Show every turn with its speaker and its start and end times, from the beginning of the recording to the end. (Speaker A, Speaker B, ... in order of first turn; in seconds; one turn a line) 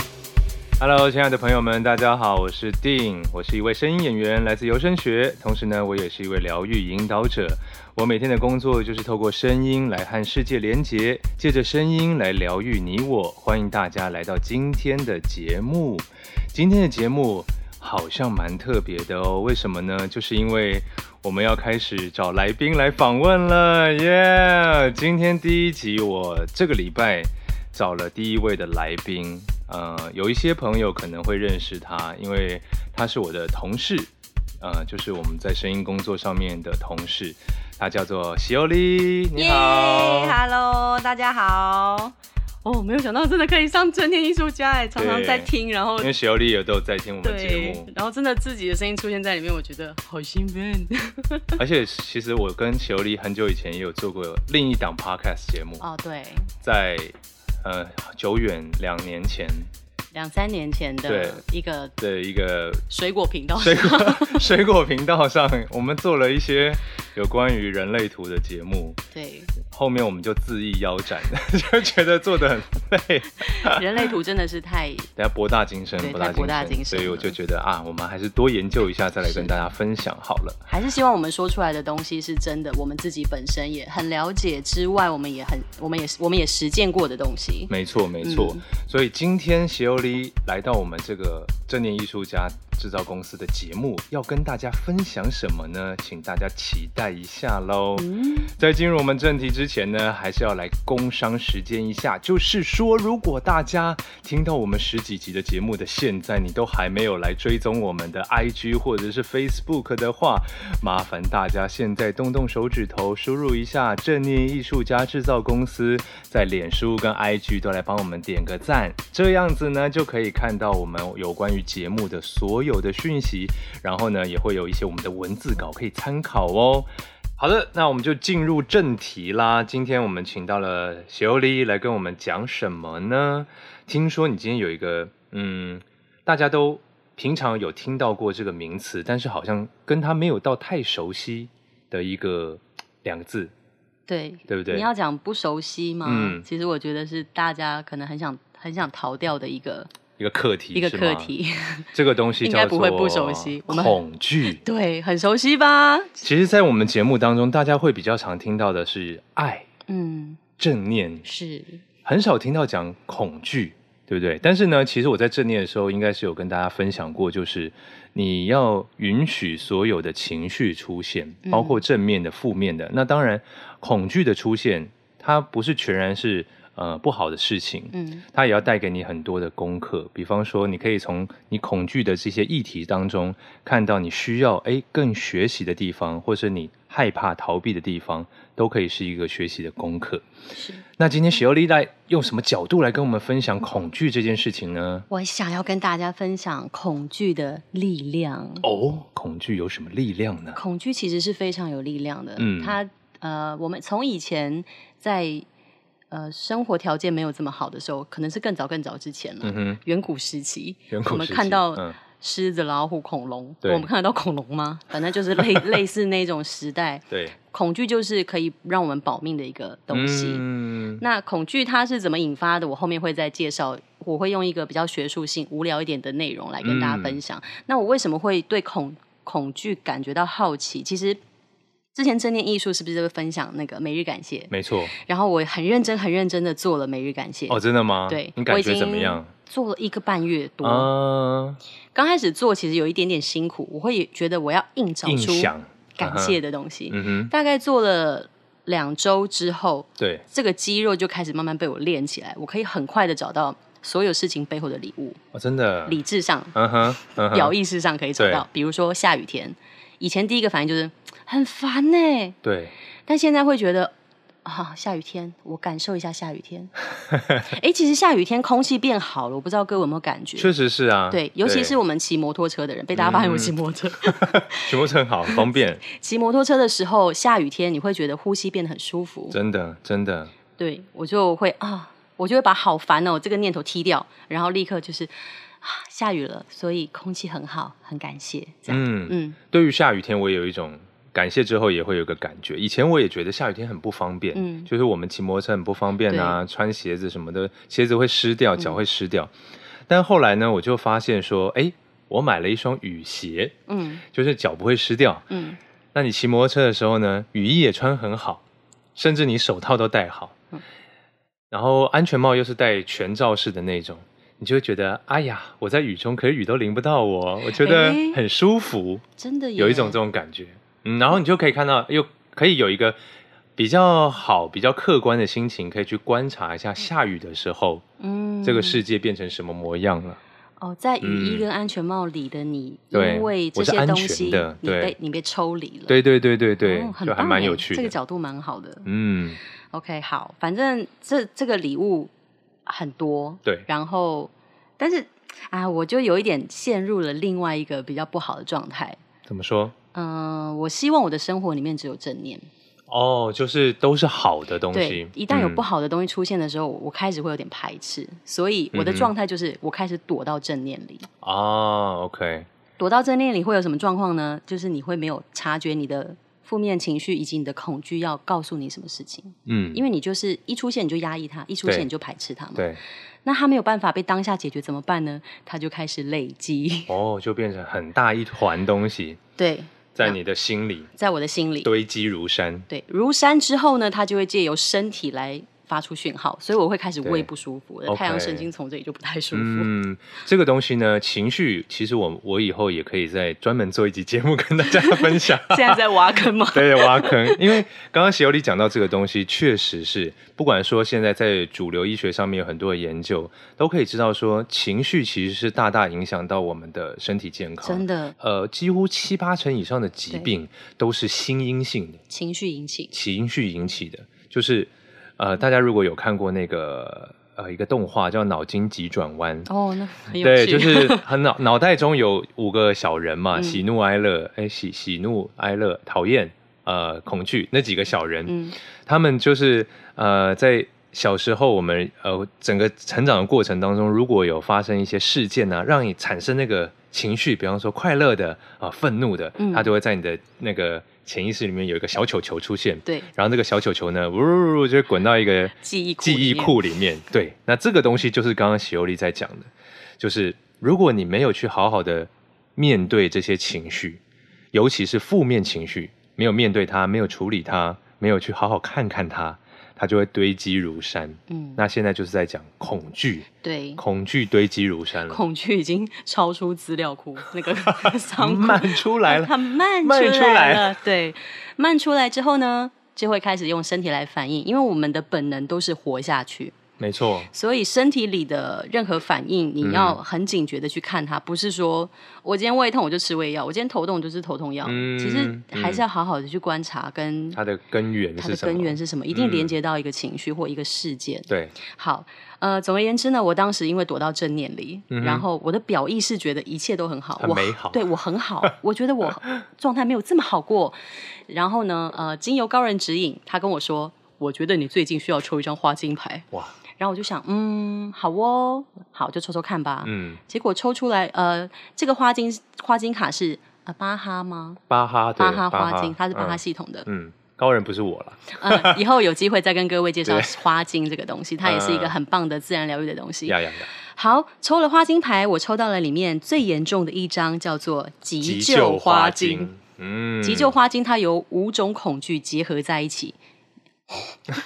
Speaker A: 0.8-40.4
Speaker B: 39.4-46.1
Speaker A: 45.0-47.9
Speaker B: 47.2-51.6
Speaker A: 51.6-55.8
Speaker B: 55.8-56.5
Speaker A: 56.6-59.7
Speaker B: 60.1-62.0
Speaker A: 61.1-61.4
Speaker A: 62.0-62.9
Speaker B: 62.9-64.5
Speaker A: 63.6-69.0
Speaker B: 69.1-69.5
Speaker A: 69.6-73.8
Speaker B: 73.4-75.1
Speaker A: 75.2-80.6
Speaker B: 76.0-77.4
Speaker B: 79.2-79.7
Speaker B: 80.7-88.6
Speaker A: 87.7-143.5
Speaker B: 98.0-98.5
Speaker B: 144.1-149.9
Speaker A: 144.5-144.9
Speaker A: 146.0-146.4
Speaker A: 150.2-151.3
Speaker B: 150.7-151.9
Speaker A: 151.9-154.6
Speaker B: 152.4-154.0
Speaker B: 154.6-156.2
Speaker A: 156.2-159.7
Speaker B: 159.9-160.4
Speaker A: 160.6-161.3
Speaker B: 161.2-161.8
Speaker A: 162.1-190.2
Speaker B: 171.4-171.8
Speaker B: 177.9-178.2
Speaker B: 190.5-190.8
Speaker A: 191.0-195.1
Speaker B: 195.1-198.7
Speaker A: 198.6-200.6
Speaker B: 200.6-205.5
Speaker A: 202.4-202.8
Speaker B: 206.1-220.4
Speaker A: 209.4-209.8
Speaker A: 210.9-212.0
Speaker A: 213.6-213.9
Speaker A: 215.4-215.7
Speaker A: 217.1-217.3
Speaker A: 219.9-221.0
Speaker B: 221.0-231.2
Speaker A: 226.6-227.2
Speaker B: 231.9-240.9
Speaker A: 234.5-234.9
Speaker A: 237.5-239.3
Speaker A: 240.6-241.6
Speaker B: 241.9-255.2
Speaker A: 245.1-247.3
Speaker A: 250.0-250.2
Speaker A: 255.3-256.0
Speaker B: 255.9-256.6
Speaker A: 256.6-257.5
Speaker B: 257.1-262.4
Speaker A: 258.2-258.4
Speaker A: 262.4-262.7
Speaker B: 263.1-263.9
Speaker B: 264.4-266.7
Speaker A: 267.1-267.4
Speaker B: 267.4-270.5
Speaker A: 270.4-271.8
Speaker B: 271.1-274.7
Speaker A: 272.9-273.5
Speaker A: 274.1-275.8
Speaker B: 275.3-279.4
Speaker A: 279.3-280.3
Speaker B: 280.6-289.4
Speaker A: 288.7-299.3
Speaker B: 294.3-294.7
Speaker B: 296.1-296.4
Speaker A: 299.9-303.6
Speaker B: 303.7-304.0
Speaker A: 304.1-305.3
Speaker B: 305.3-305.6
Speaker A: 305.9-308.4
Speaker A: 308.9-310.4
Speaker A: 311.5-319.0
Speaker B: 317.5-318.2
Speaker B: 319.2-320.0
Speaker A: 319.6-323.0
Speaker A: 323.6-327.8
Speaker B: 328.0-328.8
Speaker A: 328.4-330.2
Speaker B: 330.6-336.0
Speaker A: 331.0-331.4
Speaker A: 332.9-334.9
Speaker A: 335.9-337.9
Speaker B: 336.6-338.9
Speaker A: 338.9-339.4
Speaker B: 339.7-342.1
Speaker B: 342.7-349.0
Speaker A: 349.3-349.8
Speaker B: 349.9-352.5
Speaker A: 352.9-355.6
Speaker B: 354.7-361.1
Speaker A: 358.7-359.1
Speaker A: 361.2-362.5
Speaker B: 362.8-372.7
Speaker A: 369.5-369.8
Speaker B: 373.2-376.9
Speaker A: 376.9-379.2
Speaker B: 379.4-380.2
Speaker A: 379.9-380.9
Speaker B: 381.0-381.7
Speaker A: 381.6-382.7
Speaker B: 382.7-389.7
Speaker A: 387.9-388.5
Speaker A: 389.3-395.8
Speaker B: 394.8-397.6
Speaker A: 396.5-412.0
Speaker B: 407.6-408.1
Speaker B: 412.1-412.9
Speaker A: 412.9-419.5
Speaker B: 419.5-421.1
Speaker A: 420.1-428.3
Speaker B: 423.3-423.6
Speaker B: 428.3-428.6
Speaker A: 428.9-449.5
Speaker B: 439.4-439.7
Speaker B: 445.6-446.5
Speaker A: 450.0-454.0
Speaker A: 454.5-465.2
Speaker B: 461.3-461.6
Speaker B: 463.4-463.8
Speaker B: 465.1-476.6
Speaker A: 467.7-470.8
Speaker A: 476.8-477.3
Speaker B: 477.3-487.4
Speaker A: 479.6-480.0
Speaker A: 484.6-485.8
Speaker A: 487.3-489.5
Speaker B: 488.2-500.8
Speaker A: 491.3-491.6
Speaker A: 494.9-495.2
Speaker A: 497.2-497.8
Speaker B: 501.3-506.3
Speaker B: 506.8-514.6
Speaker A: 509.9-510.2
Speaker A: 514.7-518.8
Speaker B: 515.2-516.9
Speaker B: 518.4-529.5
Speaker A: 520.1-520.4
Speaker A: 521.4-521.9
Speaker A: 523.3-523.7
Speaker A: 528.2-530.5
Speaker B: 530.2-533.2